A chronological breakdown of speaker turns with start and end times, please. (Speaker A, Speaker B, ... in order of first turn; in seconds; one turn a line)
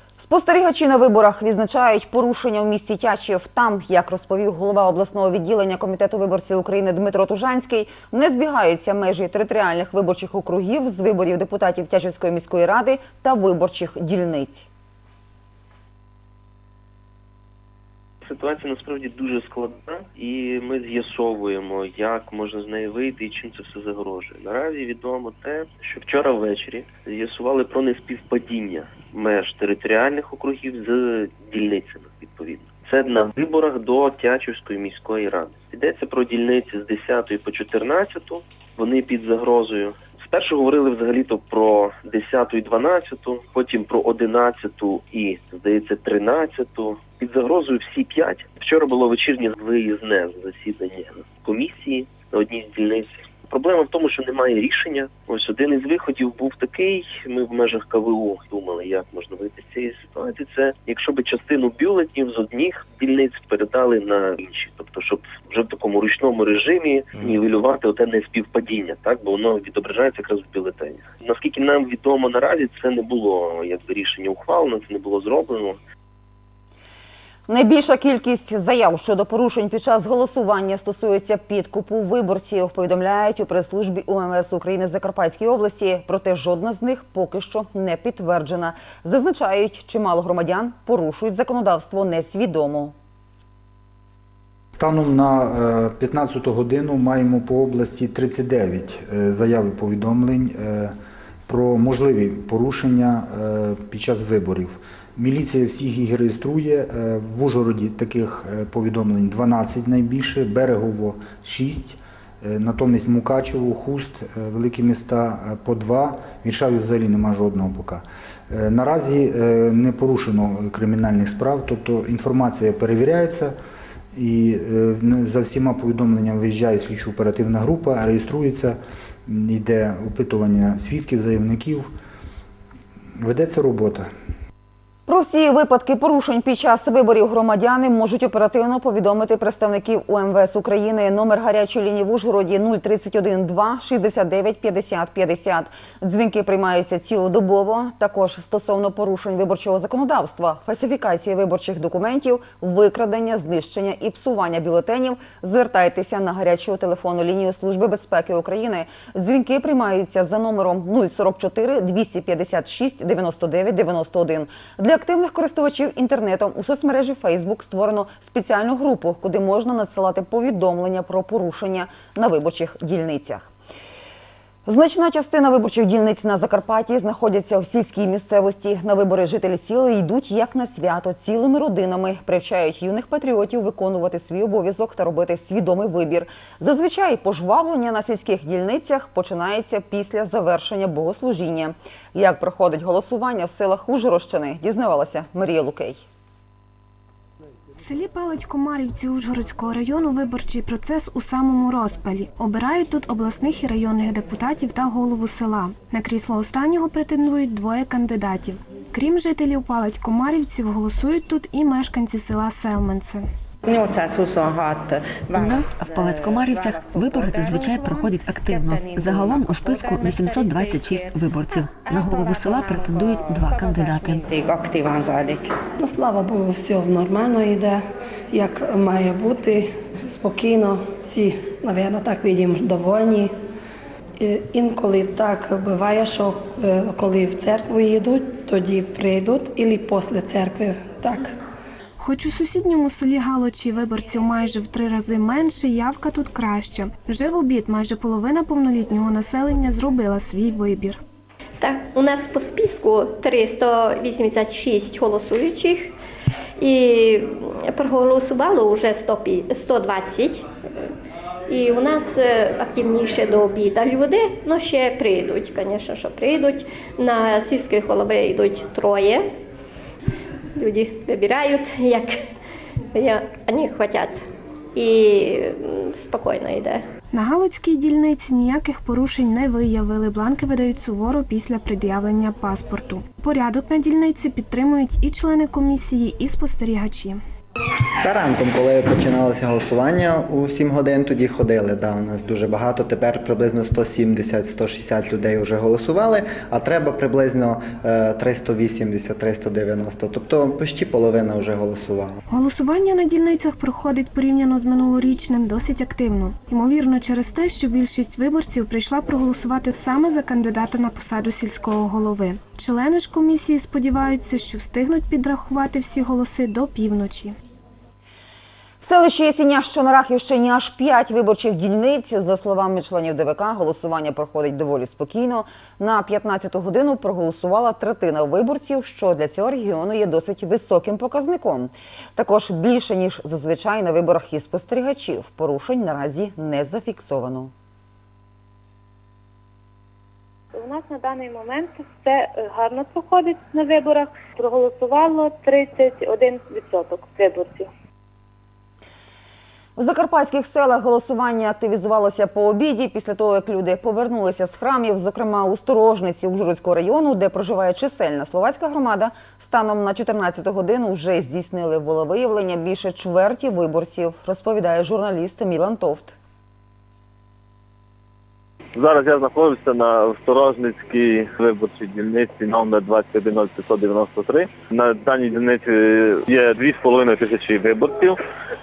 Speaker A: 0.2-14.7
Speaker B: 18.2-75.8
Speaker A: 77.5-92.9
Speaker C: 94.8-100.9
Speaker C: 101.5-123.5
Speaker C: 124.2-131.9
Speaker C: 133.2-134.1
Speaker A: 135.1-173.5
Speaker A: 174.7-196.0
Speaker D: 197.8-213.2
Speaker E: 213.7-225.5
Speaker F: 225.8-227.8
Speaker F: 228.3-233.3
Speaker F: 234.2-241.3
Speaker D: 242.0-251.0
Speaker G: 251.6-255.9
Speaker G: 256.6-260.9
Speaker G: 261.5-269.3
Speaker G: 270.6-272.2
Speaker G: 272.9-274.2
Speaker G: 274.8-276.9
Speaker D: 277.1-287.2
Speaker H: 288.0-302.2
Speaker D: 302.3-317.4
Speaker A: 318.8-337.5
Speaker I: 340.6-347.5
Speaker A: 349.8-366.1
Speaker J: 368.8-378.2